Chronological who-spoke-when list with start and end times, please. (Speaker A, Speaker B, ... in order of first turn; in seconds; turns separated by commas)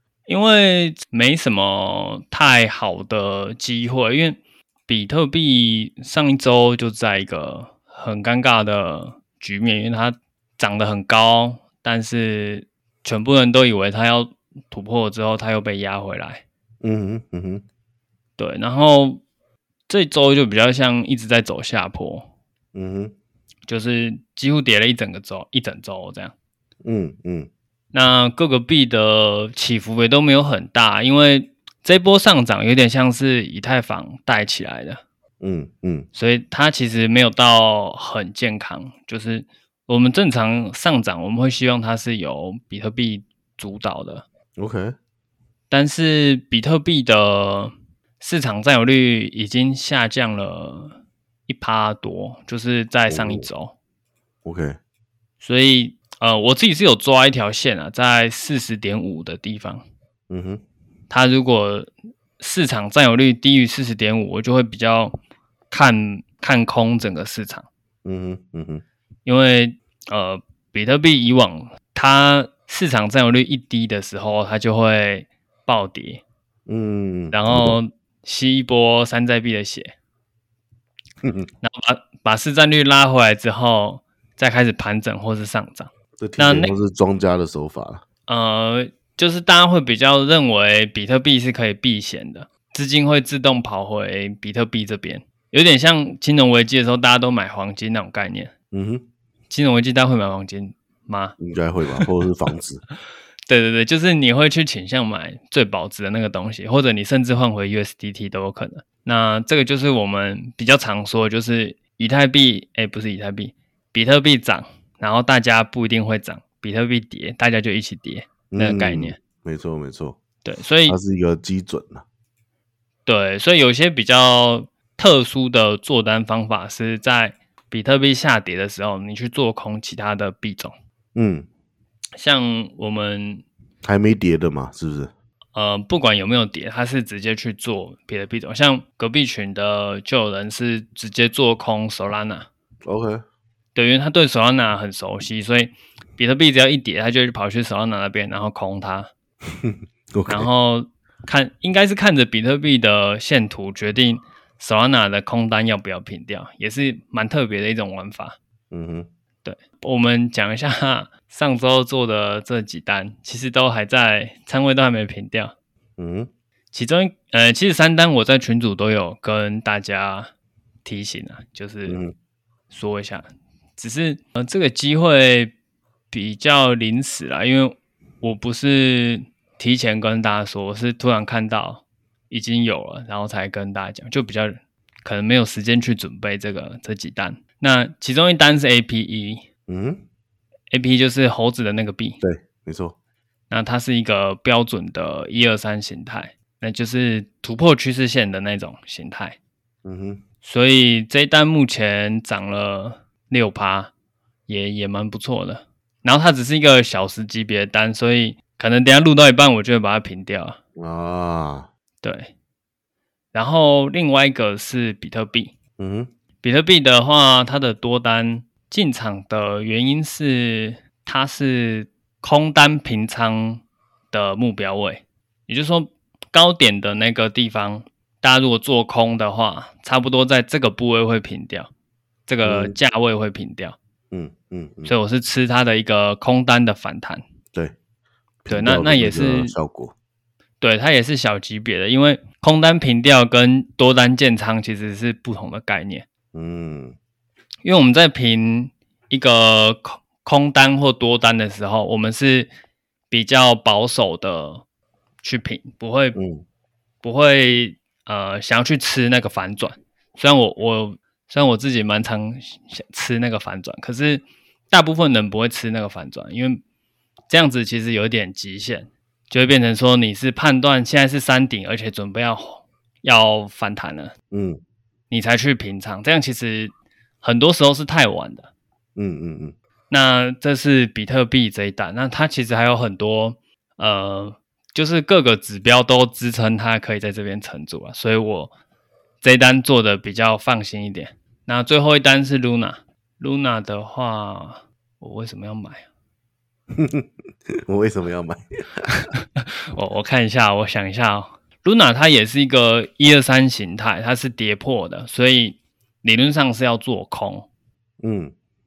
Speaker A: 0.3-16.4, Speaker B: 16.8-17.6, Speaker A: 18.4-19.2, Speaker A: 19.9-22.3, Speaker B: 22.8-23.1, Speaker A: 23.7-26.3, Speaker B: 26.8-27.5, Speaker A: 27.9-35.0, Speaker B: 35.4-36.1, Speaker A: 36.1-44.2, Speaker B: 44.6-45.0, Speaker A: 45.7-51.0, Speaker A: 51.5-53.8, Speaker B: 53.1-53.5, Speaker B: 54.5-54.8, Speaker A: 55.4-59.8, Speaker B: 60.3-60.6, Speaker A: 61.1-65.2, Speaker A: 65.7-67.7, Speaker B: 68.0-68.8, Speaker A: 69.2-76.2, Speaker B: 76.7-77.8, Speaker A: 77.3-79.9, Speaker B: 81.2-81.5, Speaker A: 81.6-86.7, Speaker B: 86.2-88.0, Speaker A: 88.3-98.5, Speaker B: 98.7-99.0, Speaker A: 99.5-101.4, Speaker B: 101.4-102.8, Speaker A: 103.5-119.2, Speaker B: 118.5-120.2, Speaker A: 120.4-121.0, Speaker B: 120.9-122.0, Speaker A: 123.1-130.8, Speaker B: 131.2-131.5, Speaker A: 132.2-133.4, Speaker B: 133.8-135.1, Speaker A: 135.5-142.5, Speaker B: 142.9-143.2, Speaker A: 143.8-149.1, Speaker B: 149.6-150.5, Speaker A: 150.3-158.4, Speaker B: 158.7-159.1, Speaker A: 159.4-165.5, Speaker B: 166.0-166.3, Speaker A: 166.7-170.3, Speaker A: 170.8-172.0, Speaker B: 171.9-172.1, Speaker A: 172.7-173.3, Speaker A: 173.8-175.5, Speaker A: 176.1-189.4, Speaker B: 189.7-190.0, Speaker A: 190.7-192.2, Speaker B: 192.2-192.9, Speaker A: 193.5-199.4, Speaker B: 199.8-200.2, Speaker A: 200.4-203.9, Speaker A: 204.5-210.6, Speaker B: 210.8-211.7, Speaker A: 212.0-212.3, Speaker A: 213.3-215.5, Speaker B: 215.8-216.1, Speaker A: 216.4-231.7, Speaker A: 232.3-233.8, Speaker B: 232.4-232.8, Speaker B: 234.1-234.9, Speaker A: 234.9-237.2, Speaker B: 238.4-239.9, Speaker A: 238.5-239.6, Speaker A: 240.6-246.1, Speaker B: 246.3-247.0, Speaker A: 247.6-252.5, Speaker A: 253.1-254.6, Speaker A: 255.2-256.2, Speaker B: 256.2-256.4, Speaker A: 257.0-266.6, Speaker A: 267.3-274.1, Speaker B: 274.3-274.6, Speaker A: 275.1-278.5, Speaker B: 279.0-279.6, Speaker A: 279.9-288.5, Speaker A: 289.2-295.9, Speaker B: 296.8-297.1, Speaker B: 297.7-298.9, Speaker A: 299.2-307.5, Speaker B: 308.0-308.3